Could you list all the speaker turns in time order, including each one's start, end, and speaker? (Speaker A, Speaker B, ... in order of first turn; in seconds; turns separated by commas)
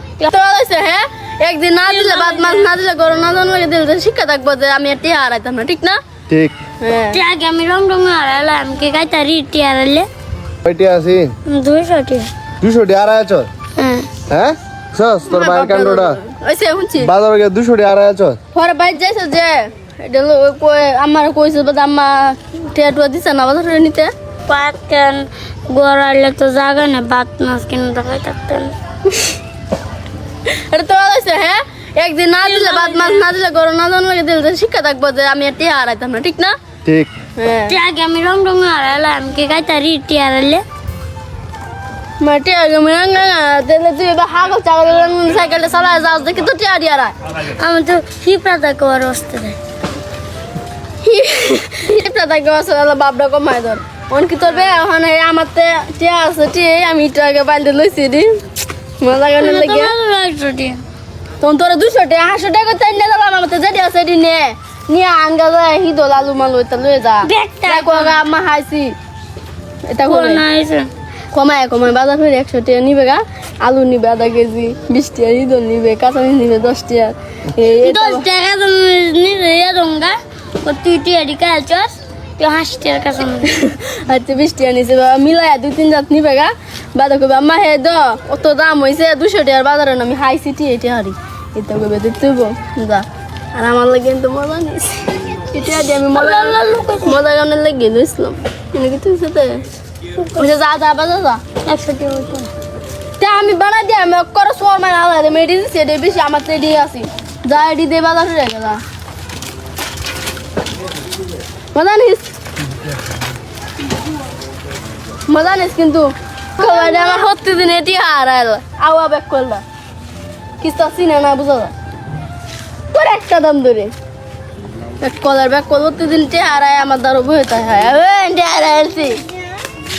Speaker A: 0.2-6.0, Speaker B: 1.9-2.7, Speaker C: 6.3-6.5, Speaker A: 6.8-7.2, Speaker B: 7.1-10.1, Speaker C: 10.6-11.3, Speaker B: 11.5-12.3, Speaker C: 12.6-13.5, Speaker B: 13.8-14.1, Speaker C: 14.3-16.2, Speaker A: 15.3-17.1, Speaker C: 17.0-18.4, Speaker A: 18.5-24.1, Speaker B: 24.5-28.7, Speaker A: 30.5-36.5, Speaker B: 32.4-33.3, Speaker C: 36.8-37.1, Speaker A: 37.4-37.8, Speaker B: 37.7-40.6, Speaker A: 42.2-47.1, Speaker B: 47.4-49.6, Speaker A: 51.0-58.4, Speaker A: 59.0-59.9, Speaker B: 59.4-60.8, Speaker A: 61.4-68.9, Speaker B: 67.2-68.2, Speaker A: 69.9-70.4, Speaker B: 70.0-70.9, Speaker A: 71.3-78.2, Speaker B: 77.8-83.6, Speaker A: 83.4-99.6, Speaker B: 96.1-97.2, Speaker B: 100.2-100.5, Speaker A: 100.3-101.4, Speaker B: 101.6-102.5, Speaker A: 103.2-108.8, Speaker A: 111.7-112.3, Speaker A: 115.3-119.6, Speaker A: 120.6-121.7, Speaker A: 122.9-123.9, Speaker A: 125.0-129.3